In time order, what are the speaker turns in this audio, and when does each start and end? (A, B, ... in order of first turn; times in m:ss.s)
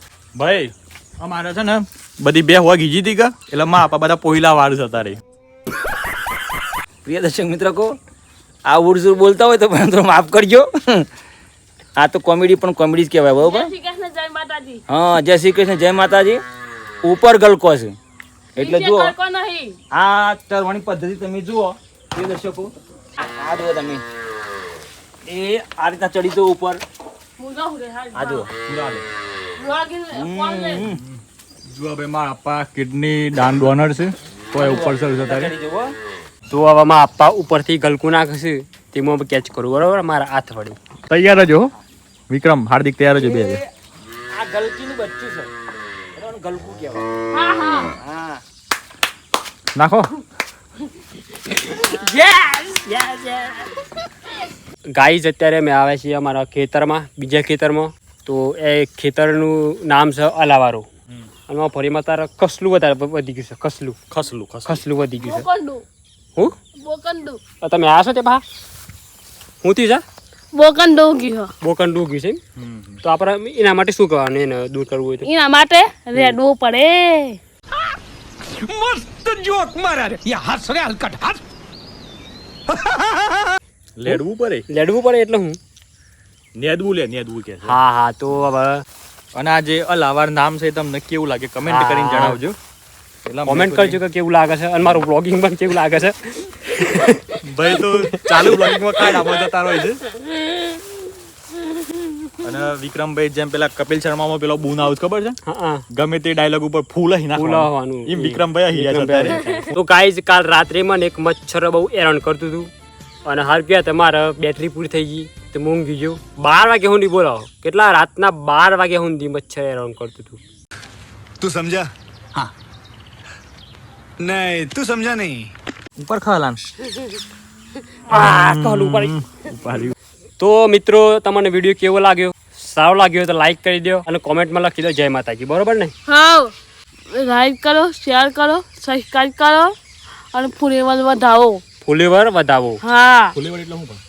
0:00.4-0:05.2 A
0:07.1-0:08.0 B
0:08.6-0:11.1 B
0:12.0-0:13.7 B
0:13.4-0:14.8 C
0:14.9-0:16.4 B
0:17.0-0:18.0 B
0:18.6-0:19.1 B
0:18.6-0:19.8 C
0:19.9-0:24.0 B
0:25.3-0:26.8 B
0:27.4-0:28.5 C
0:28.2-0:28.5 B
0:28.6-0:29.0 A
0:29.6-0:30.9 C
0:30.1-0:31.0 B
0:30.9-0:35.5 A
0:34.5-0:35.9 B
0:36.5-0:40.8 D
0:41.1-0:41.7 A
0:42.3-0:43.6 A
0:43.2-0:43.7 B
0:44.3-0:45.5 B
0:46.2-0:47.1 B
0:47.3-0:47.9 C
0:48.0-0:48.4 B
0:49.8-0:50.1 A
0:52.0-0:53.0 C
0:52.5-0:53.3 D
0:54.9-1:00.9 D
1:01.5-1:04.0 D
1:04.1-1:04.8 A
1:04.7-1:05.5 D
1:05.2-1:05.8 C
1:06.8-1:07.4 C
1:07.6-1:08.4 D
1:09.6-1:10.0 D
1:10.5-1:11.5 C
1:11.6-1:12.4 D
1:12.6-1:13.0 A
1:13.0-1:15.3 D
1:15.2-1:17.4 C
1:18.5-1:21.4 E
1:22.7-1:23.5 E
1:24.0-1:24.7 A
1:24.1-1:25.6 D
1:26.6-1:27.8 A
1:27.6-1:28.8 D
1:29.3-1:32.6 A
1:31.7-1:32.4 D
1:33.3-1:34.0 A
1:33.5-1:38.8 D
1:37.4-1:40.0 A
1:42.4-1:45.4 A
1:45.4-1:45.8 D
1:45.9-1:49.8 A
1:47.4-1:52.7 D
1:53.2-2:00.4 D
2:01.4-2:01.9 E
2:04.2-2:05.5 E
2:06.0-2:06.6 B
2:08.1-2:09.2 D
2:08.1-2:10.0 A
2:10.4-2:15.9 D
2:16.1-2:16.5 C
2:17.1-2:19.7 C
2:20.3-2:21.6 C
2:21.8-2:22.8 D
2:22.8-2:23.4 C
2:23.3-2:24.0 A